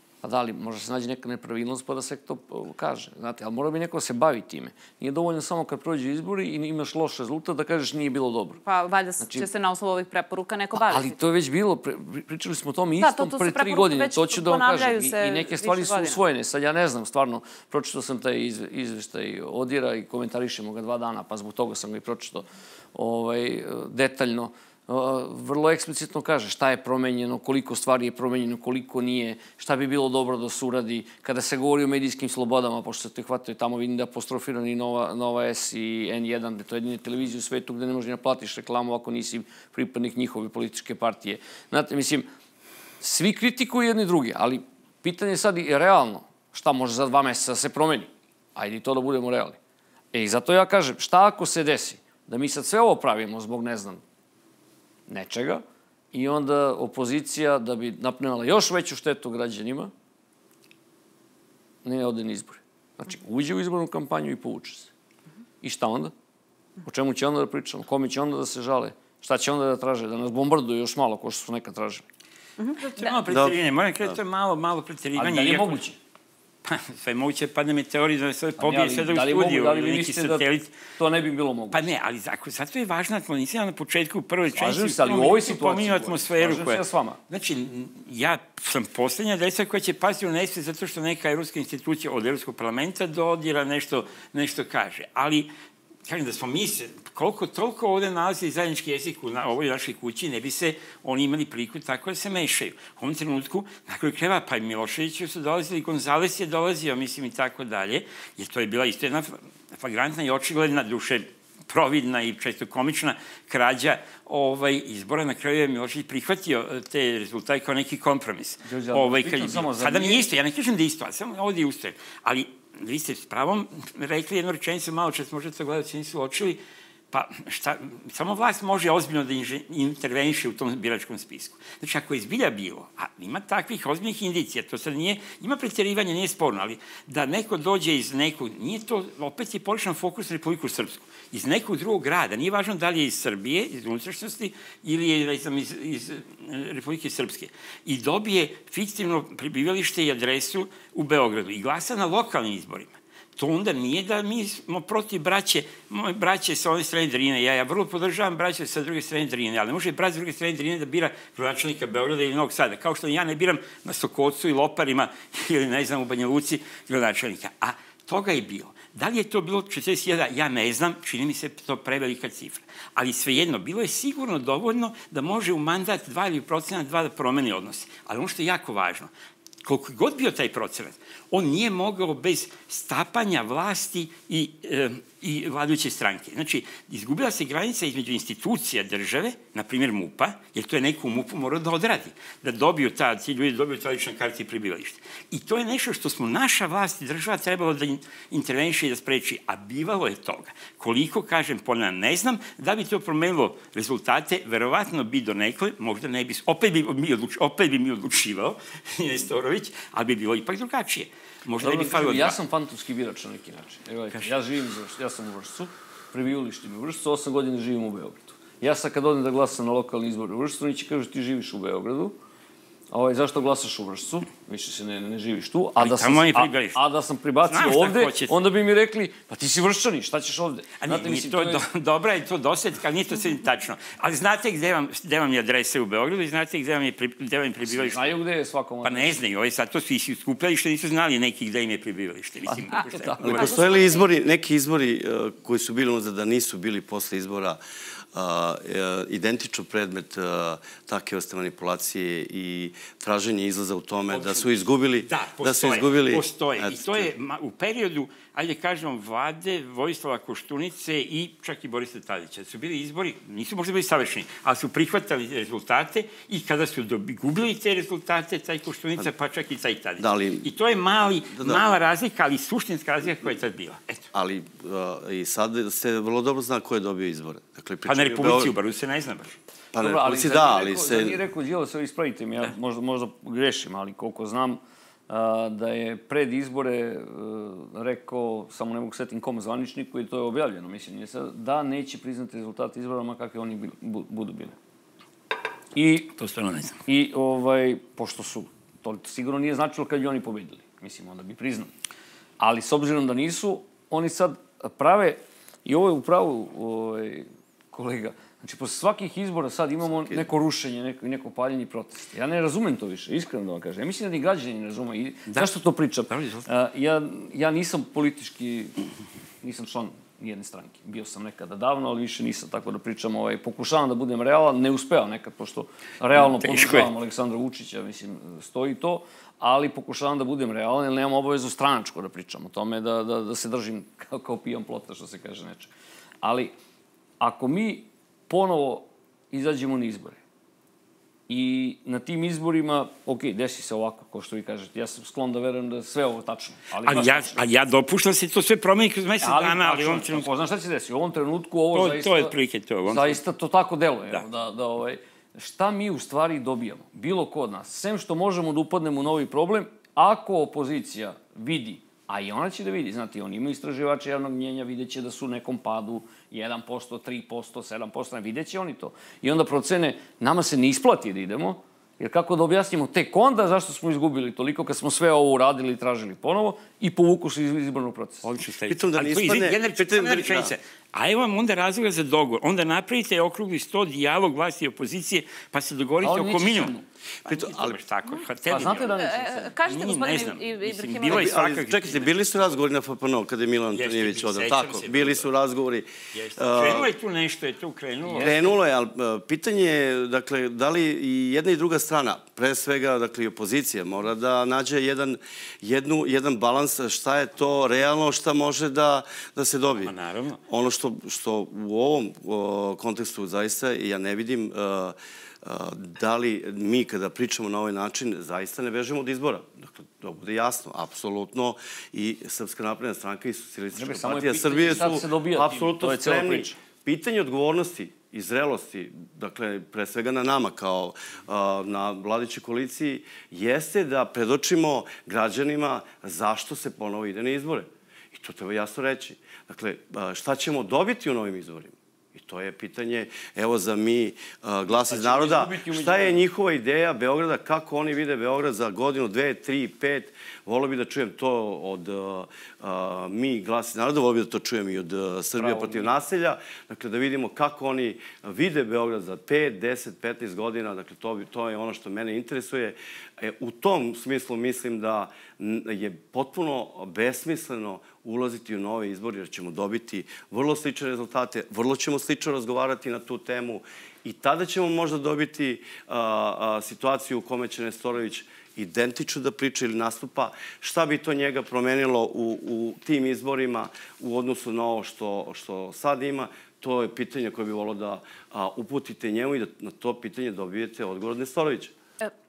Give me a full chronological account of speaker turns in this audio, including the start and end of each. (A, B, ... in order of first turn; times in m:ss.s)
0:00.2-0:08.6 A
0:08.6-0:11.2 B
0:09.2-0:09.5 A
0:10.8-0:42.3 A
0:13.0-0:16.2 B
0:43.0-0:49.6 A
0:50.1-0:54.0 A
0:55.1-0:59.9 A
1:01.8-1:04.9 A
1:05.6-1:06.1 A
1:06.8-1:12.0 A
1:12.6-1:13.1 B
1:12.8-1:15.8 C
1:13.3-1:14.2 D
1:15.2-1:16.0 A
1:16.6-1:20.7 C
1:18.6-1:20.4 A
1:21.0-1:21.8 A
1:21.7-1:35.5 C
1:24.6-1:27.2 A
1:36.0-2:59.1 C
1:58.6-2:00.2 A
2:59.6-3:32.4 C
3:31.6-3:42.1 A
3:42.9-3:51.6 A
3:45.8-3:46.8 C
3:47.4-3:48.4 C
3:50.8-3:58.1 C
3:57.7-3:59.2 A
3:58.8-4:03.5 C
4:02.5-4:03.7 A
4:03.2-4:07.6 D
4:03.4-4:04.0 B
4:08.1-4:17.1 D
4:14.1-4:14.5 C
4:15.0-4:34.0 C
4:30.0-4:30.5 D
4:31.4-4:31.6 D
4:34.1-4:38.5 D
4:37.8-4:39.4 C
4:39.7-4:41.2 D
4:39.8-4:54.6 A
4:55.7-4:56.1 A
4:56.2-4:56.8 C
4:56.9-5:01.7 A
5:02.4-5:18.8 A
5:10.0-5:10.2 D
5:16.1-5:16.4 C
5:19.4-5:36.5 A
5:26.1-5:26.9 C
5:37.2-5:40.2 A
5:41.3-5:47.4 A
5:46.8-5:50.3 C
5:49.2-5:52.3 A
5:51.7-5:53.2 C
5:52.8-6:18.2 A
6:18.2-6:32.5 C
6:18.7-6:20.5 D
6:26.0-6:26.8 A
6:27.2-6:27.8 D
6:28.5-6:29.4 A
6:28.9-6:31.3 B
6:31.0-6:36.9 D
6:33.7-6:35.3 C
6:36.1-6:38.5 C
6:38.0-6:38.5 A
6:38.2-6:49.9 D
6:49.8-6:50.4 C
6:50.5-8:11.7 D
7:03.7-7:06.6 A
7:24.7-7:26.2 A
7:35.3-7:35.9 A